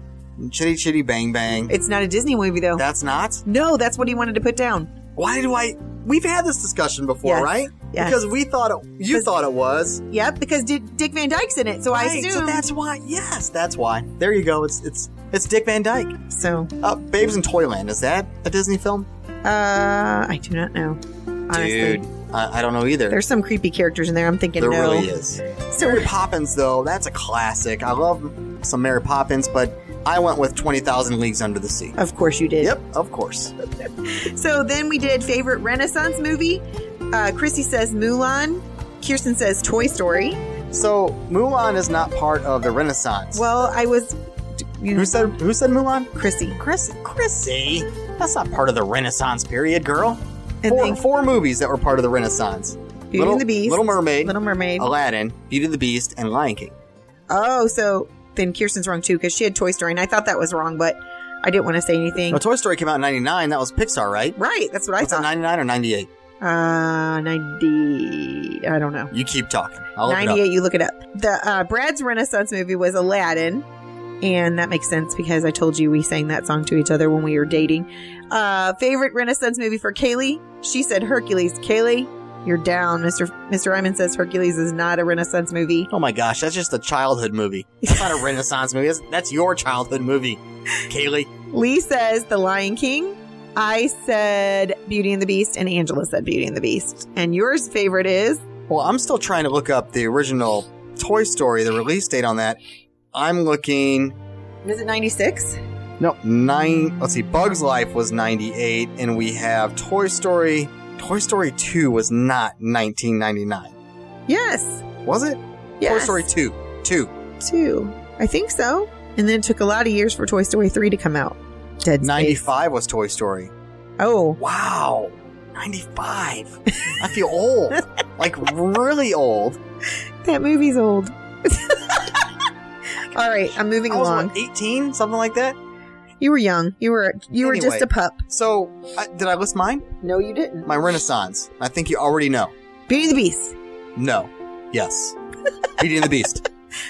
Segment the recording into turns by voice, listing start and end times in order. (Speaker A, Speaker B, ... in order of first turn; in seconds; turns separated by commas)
Speaker A: 0.4-1.7, Speaker B: 1.7-2.8, Speaker A: 2.8-3.4, Speaker B: 3.4-4.9, Speaker A: 5.2-10.0, Speaker B: 7.2-8.2, Speaker B: 10.1-12.7, Speaker A: 11.9-16.2, Speaker B: 16.3-16.7, Speaker A: 16.8-19.1, Speaker B: 19.4-22.0, Speaker A: 21.5-23.2, Speaker B: 23.1-25.1, Speaker A: 24.6-32.0, Speaker B: 25.7-26.1, Speaker B: 32.0-32.7, Speaker A: 32.6-33.5, Speaker B: 34.0-40.4, Speaker A: 40.7-43.4, Speaker B: 43.3-44.2, Speaker B: 44.8-45.3, Speaker A: 44.9-56.8, Speaker B: 46.1-46.6, Speaker B: 50.6-51.0, Speaker B: 53.1-54.9, Speaker B: 57.3-62.4, Speaker A: 62.3-64.4, Speaker B: 64.4-65.3, Speaker A: 65.0-66.1, Speaker B: 66.4-69.1, Speaker A: 69.1-70.4, Speaker B: 70.0-73.6, Speaker B: 74.2-85.9, Speaker A: 85.9-91.3, Speaker B: 91.5-98.4, Speaker A: 98.7-102.6, Speaker A: 103.1-104.2, Speaker B: 104.6-105.6, Speaker A: 106.0-113.7, Speaker B: 114.3-114.8, Speaker A: 115.0-117.1, Speaker B: 115.8-116.3, Speaker B: 117.4-122.4, Speaker A: 122.0-123.5, Speaker B: 124.0-124.4, Speaker A: 124.4-129.6, Speaker B: 130.2-132.3, Speaker B: 133.1-134.3, Speaker A: 133.9-135.6, Speaker B: 136.2-138.2, Speaker A: 137.3-139.9, Speaker B: 140.0-140.7, Speaker A: 140.6-142.5, Speaker B: 142.9-143.5, Speaker A: 143.9-145.2, Speaker A: 145.8-146.4